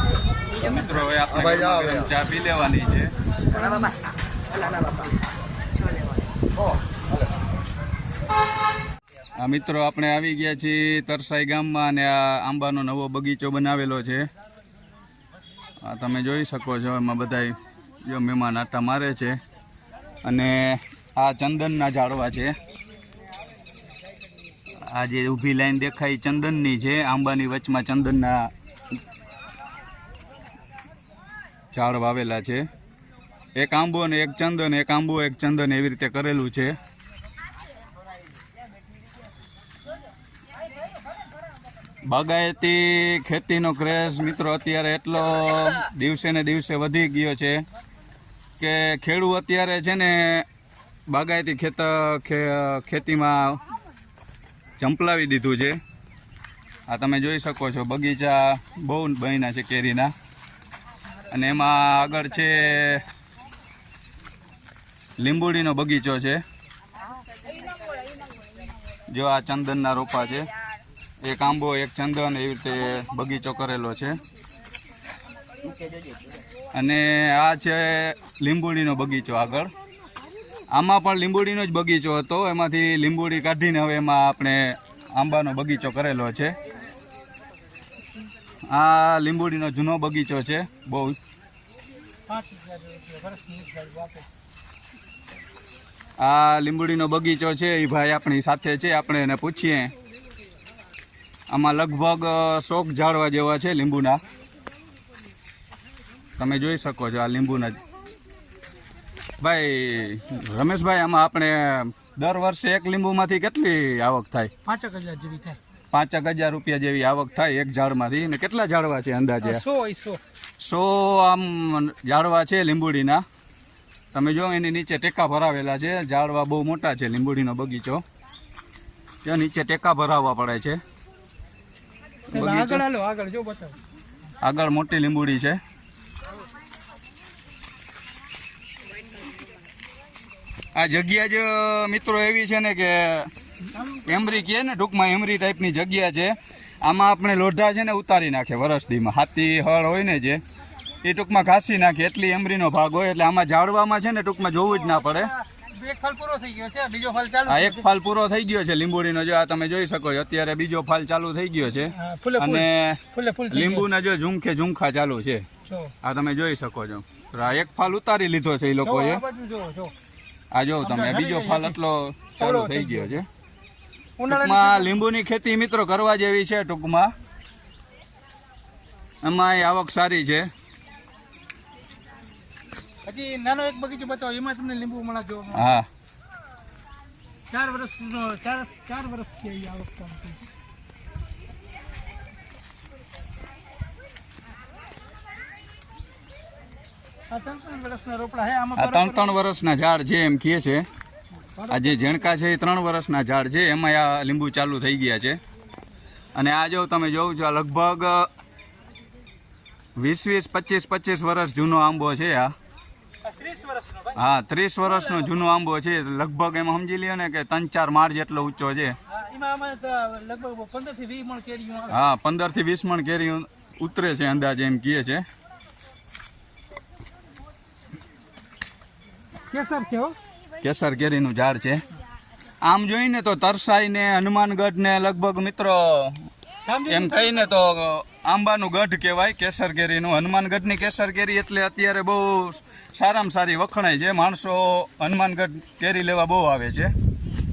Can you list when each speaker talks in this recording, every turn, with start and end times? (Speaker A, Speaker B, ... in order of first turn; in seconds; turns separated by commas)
Speaker A: 0.6-3.1, Speaker A: 9.4-14.3, Speaker A: 15.8-19.4, Speaker A: 20.2-22.6, Speaker A: 24.9-28.5, Speaker A: 31.7-32.7, Speaker A: 33.6-36.8, Speaker A: 42.1-47.6, Speaker A: 48.6-50.5, Speaker A: 51.1-53.6, Speaker A: 54.8-55.8, Speaker A: 56.9-60.1, Speaker A: 61.3-63.0, Speaker A: 65.2-66.4, Speaker A: 69.1-70.5, Speaker A: 71.2-74.2, Speaker A: 76.7-79.7, Speaker A: 80.7-86.5, Speaker A: 88.7-91.2, Speaker B: 92.3-94.3, Speaker A: 96.2-99.9, Speaker A: 101.5-104.2, Speaker A: 106.4-107.8, Speaker A: 109.4-114.5, Speaker B: 114.7-115.6, Speaker A: 115.9-119.6, Speaker B: 119.4-120.2, Speaker A: 120.6-123.2, Speaker A: 124.1-128.0, Speaker A: 129.2-130.8, Speaker B: 132.3-133.8, Speaker A: 132.3-132.8, Speaker A: 134.4-135.6, Speaker A: 140.8-143.3, Speaker B: 143.7-144.3, Speaker A: 144.1-150.4, Speaker A: 151.0-155.3, Speaker B: 154.6-157.9, Speaker A: 157.5-165.4, Speaker B: 161.9-163.9, Speaker B: 165.7-165.9, Speaker A: 166.0-169.2, Speaker B: 168.8-169.9, Speaker A: 170.5-173.3, Speaker B: 170.8-171.8, Speaker B: 172.4-173.2, Speaker B: 174.2-175.0, Speaker A: 174.3-177.1, Speaker A: 179.2-180.5, Speaker B: 183.1-185.7, Speaker A: 185.5-185.9, Speaker B: 187.5-190.4, Speaker B: 197.3-199.3, Speaker A: 198.8-200.9, Speaker B: 201.6-202.3, Speaker A: 201.7-205.4, Speaker A: 206.4-208.3, Speaker A: 210.0-212.5, Speaker B: 213.2-214.2, Speaker A: 214.2-219.0, Speaker B: 214.8-215.4, Speaker B: 219.1-222.0, Speaker A: 221.9-225.2, Speaker B: 229.5-230.2, Speaker A: 230.6-231.8, Speaker A: 232.6-236.3, Speaker B: 236.7-237.5, Speaker A: 236.9-246.9